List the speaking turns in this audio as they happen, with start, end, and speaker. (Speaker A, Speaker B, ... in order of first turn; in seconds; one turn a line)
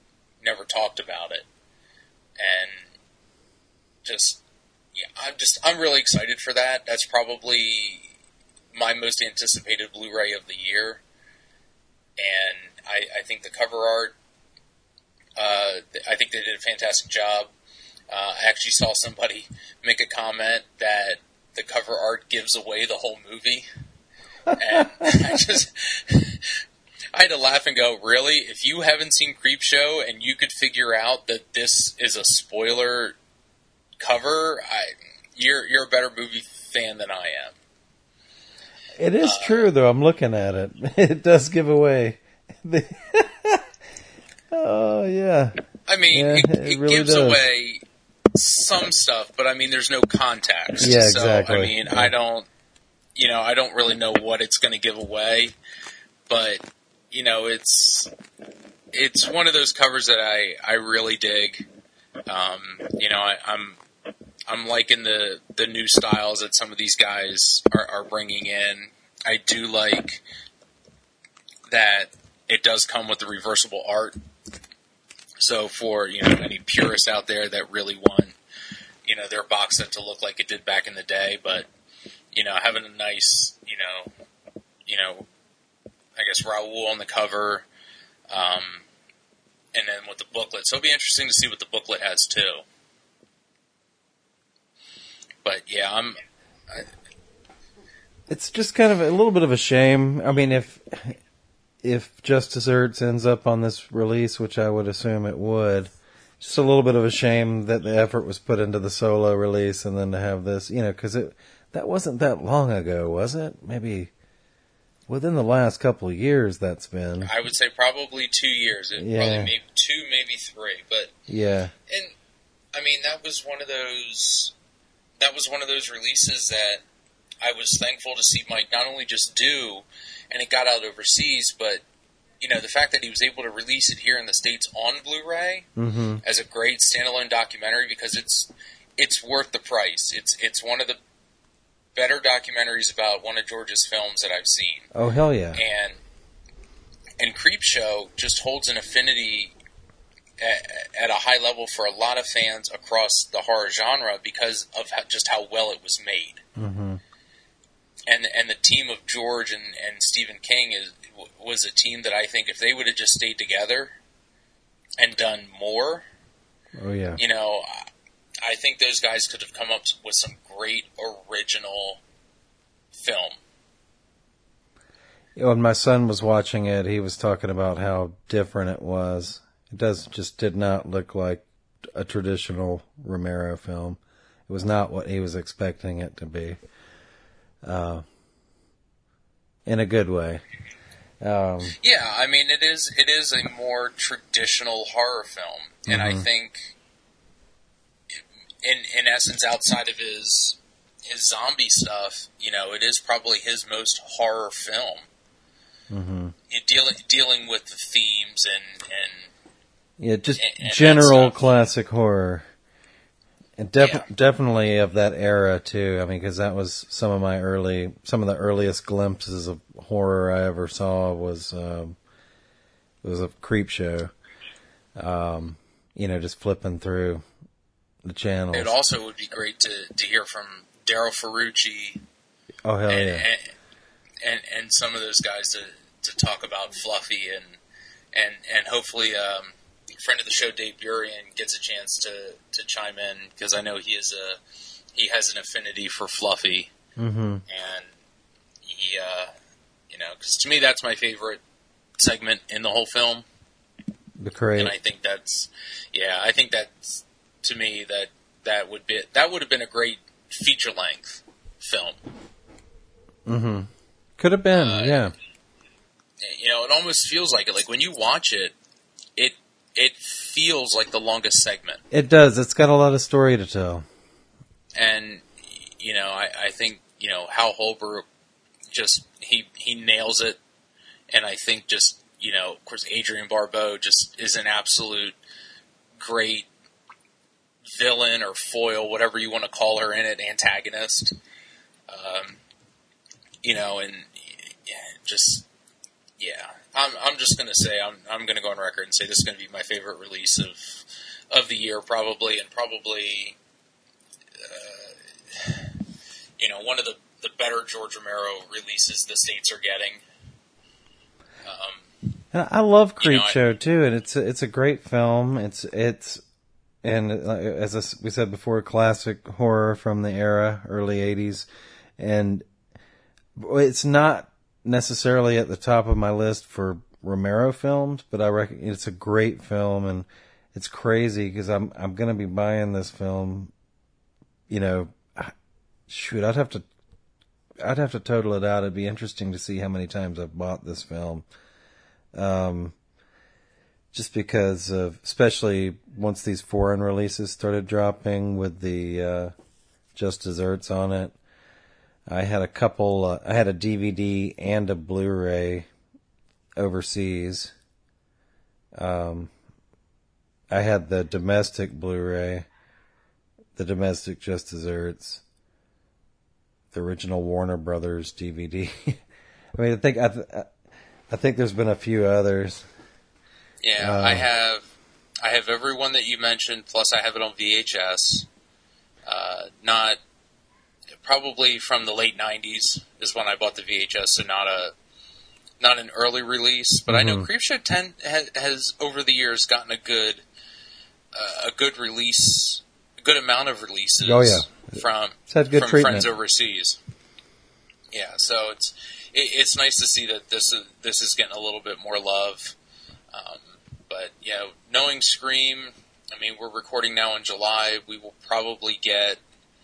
Speaker A: 0.4-1.4
Speaker A: 2.4-2.9
Speaker A: 4.0-4.4
Speaker A: 5.0-8.1
Speaker A: 8.7-11.0
Speaker A: 12.2-14.1
Speaker A: 15.4-17.5
Speaker A: 18.1-23.6
Speaker B: 24.5-25.1
Speaker A: 24.6-26.6
Speaker A: 27.1-33.1
Speaker A: 34.0-37.5
Speaker B: 39.0-43.6
Speaker A: 39.2-39.7
Speaker B: 44.5-45.6
Speaker A: 45.9-47.8
Speaker B: 46.1-47.4
Speaker A: 48.3-52.5
Speaker B: 50.8-52.1
Speaker A: 53.1-55.5
Speaker A: 56.3-58.1
Speaker A: 58.9-61.7
Speaker A: 62.3-63.8
Speaker A: 64.5-70.2
Speaker A: 71.7-74.2
Speaker A: 75.4-78.3
Speaker A: 79.0-81.7
Speaker A: 82.3-84.1
Speaker A: 84.9-85.3
Speaker A: 86.2-87.7
Speaker A: 88.3-88.8
Speaker A: 89.7-92.6
Speaker A: 95.4-96.2
Speaker B: 98.3-101.2
Speaker B: 101.8-114.1
Speaker B: 115.1-117.3
Speaker A: 117.2-121.1
Speaker B: 119.0-119.5
Speaker B: 121.3-121.7
Speaker A: 122.7-124.5
Speaker A: 125.2-126.8
Speaker A: 127.4-131.8
Speaker A: 132.4-135.7
Speaker B: 135.8-136.2
Speaker A: 136.2-141.0
Speaker A: 141.9-144.9
Speaker B: 144.9-145.6
Speaker A: 145.5-146.0
Speaker A: 147.2-149.5
Speaker A: 150.4-156.4
Speaker B: 156.5-157.0
Speaker A: 158.1-163.9
Speaker A: 165.0-166.0
Speaker B: 166.8-167.2
Speaker A: 167.2-167.8
Speaker A: 168.4-172.0
Speaker A: 172.9-173.4
Speaker B: 175.4-186.6
Speaker B: 187.6-188.0
Speaker B: 189.7-190.4
Speaker B: 191.2-191.8
Speaker A: 191.8-196.7
Speaker B: 195.9-196.2
Speaker A: 198.1-205.1
Speaker B: 205.9-206.3
Speaker A: 206.5-209.3
Speaker B: 210.0-212.4
Speaker A: 210.3-211.3
Speaker B: 213.6-221.9
Speaker A: 213.8-214.0
Speaker B: 223.0-224.1
Speaker B: 225.0-227.2
Speaker B: 228.0-228.7
Speaker A: 228.5-232.0
Speaker B: 232.6-233.3
Speaker A: 232.9-233.5
Speaker A: 234.2-237.6
Speaker A: 238.1-244.4
Speaker A: 244.9-246.7
Speaker B: 247.0-247.4
Speaker A: 247.5-247.9
Speaker A: 248.6-249.3
Speaker A: 249.9-251.4
Speaker A: 252.0-253.2
Speaker B: 254.2-254.7
Speaker A: 254.6-262.0
Speaker B: 263.2-265.1
Speaker A: 264.5-265.0
Speaker A: 266.2-268.5
Speaker A: 269.1-271.8
Speaker B: 271.9-273.9
Speaker A: 274.8-275.2
Speaker A: 275.8-278.0
Speaker A: 278.7-280.4
Speaker A: 281.1-285.1
Speaker A: 286.0-286.5
Speaker A: 287.8-291.2
Speaker A: 291.9-292.4
Speaker A: 293.4-295.4
Speaker A: 296.2-303.4
Speaker A: 304.4-305.7
Speaker A: 306.4-310.0
Speaker A: 311.4-311.9
Speaker B: 312.3-316.2
Speaker A: 313.0-313.4
Speaker B: 316.8-322.4
Speaker B: 323.4-333.5
Speaker B: 334.5-335.3
Speaker B: 335.9-336.6
Speaker B: 337.6-341.2
Speaker B: 342.1-342.7
Speaker B: 343.9-349.3
Speaker B: 349.9-351.1
Speaker B: 352.1-355.7
Speaker B: 356.6-357.5
Speaker B: 358.7-359.3
Speaker B: 360.5-362.5
Speaker B: 363.6-365.2
Speaker B: 366.7-369.0
Speaker B: 369.5-370.5
Speaker B: 371.1-372.7
Speaker A: 373.6-374.6
Speaker B: 373.8-374.3
Speaker A: 375.2-378.3
Speaker A: 379.1-380.0
Speaker A: 381.0-384.7
Speaker A: 385.6-390.2
Speaker B: 386.9-387.3
Speaker A: 391.1-396.8
Speaker B: 394.0-396.1
Speaker A: 397.9-402.5
Speaker A: 403.1-409.2